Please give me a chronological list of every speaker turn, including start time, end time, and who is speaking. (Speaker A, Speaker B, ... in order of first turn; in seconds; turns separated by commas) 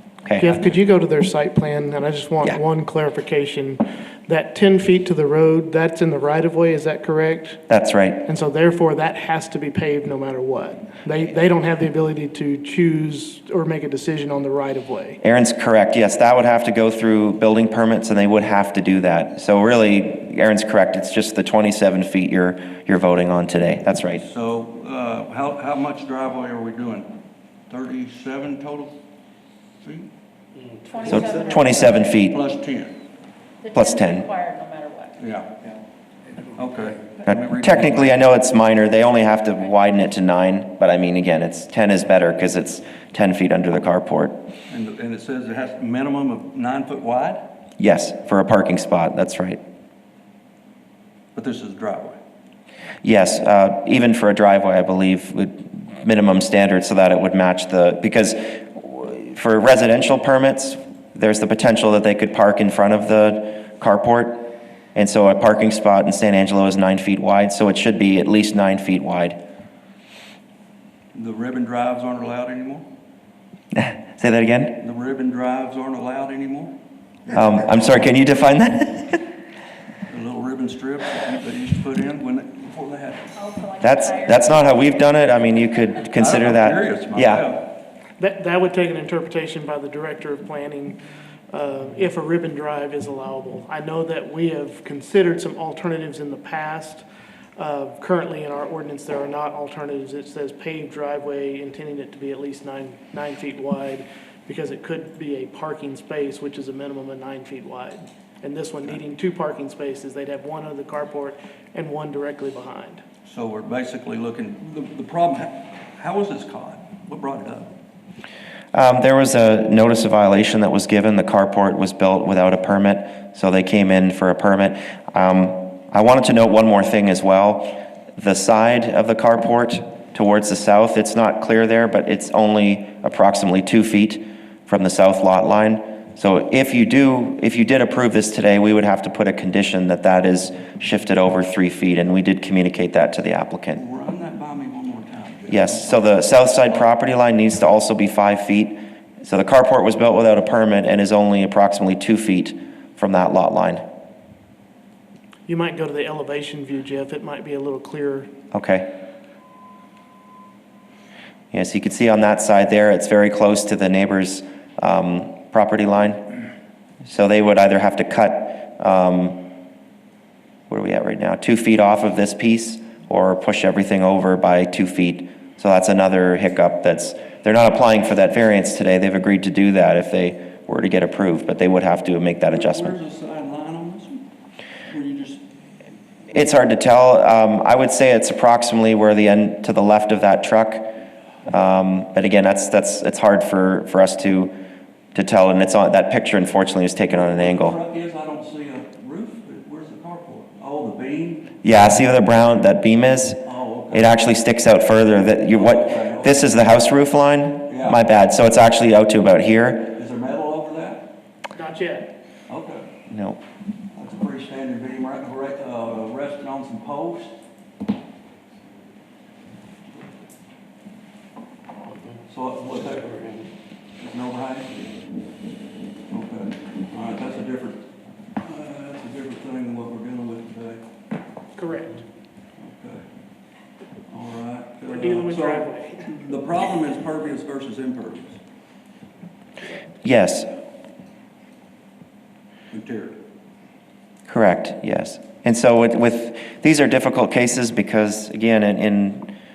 Speaker A: 0.2-0.6, Speaker B: 0.4-7.6, Speaker A: 7.7-8.2, Speaker B: 8.2-15.2, Speaker A: 15.2-24.2, Speaker C: 24.2-27.1, Speaker C: 27.7-28.9, Speaker C: 29.8-30.1, Speaker D: 30.8-32.0, Speaker A: 31.0-32.4, Speaker C: 32.3-33.0, Speaker D: 33.6-35.2, Speaker A: 33.7-34.3, Speaker C: 35.2-35.5, Speaker C: 36.5-38.2, Speaker A: 37.2-44.5, Speaker C: 44.7-47.5, Speaker A: 47.8-49.6, Speaker C: 51.3-52.2, Speaker A: 53.0-69.4, Speaker C: 71.1-72.8, Speaker A: 73.7-74.8, Speaker C: 74.8-76.7, Speaker A: 77.3-79.2, Speaker C: 80.1-83.3, Speaker D: 83.3-84.8, Speaker A: 83.8-87.5, Speaker C: 86.1-87.7, Speaker B: 88.2-91.0, Speaker B: 91.5-97.0, Speaker B: 97.6-113.0, Speaker C: 113.2-117.7, Speaker A: 118.7-143.8, Speaker C: 143.7-146.9, Speaker A: 145.5-153.8, Speaker B: 155.5-158.3, Speaker A: 158.5-158.9, Speaker A: 161.5-166.2, Speaker A: 167.0-169.4, Speaker A: 170.7-182.9, Speaker C: 182.5-184.2, Speaker C: 184.9-185.4, Speaker A: 186.3-190.9, Speaker A: 191.5-194.5, Speaker A: 195.1-197.7, Speaker C: 197.1-201.5, Speaker A: 201.6-209.9, Speaker C: 203.4-204.3, Speaker C: 205.5-206.7, Speaker C: 207.7-208.0, Speaker C: 209.9-211.1, Speaker B: 211.5-212.1, Speaker C: 212.5-212.9, Speaker A: 213.1-213.4, Speaker C: 213.9-217.3, Speaker C: 222.3-223.3, Speaker C: 224.0-224.8, Speaker C: 226.1-227.8, Speaker C: 228.4-230.8, Speaker B: 231.5-232.0, Speaker C: 232.6-233.0, Speaker C: 234.1-238.4, Speaker B: 234.9-236.1, Speaker A: 240.0-240.5, Speaker C: 242.7-243.2, Speaker A: 244.3-249.3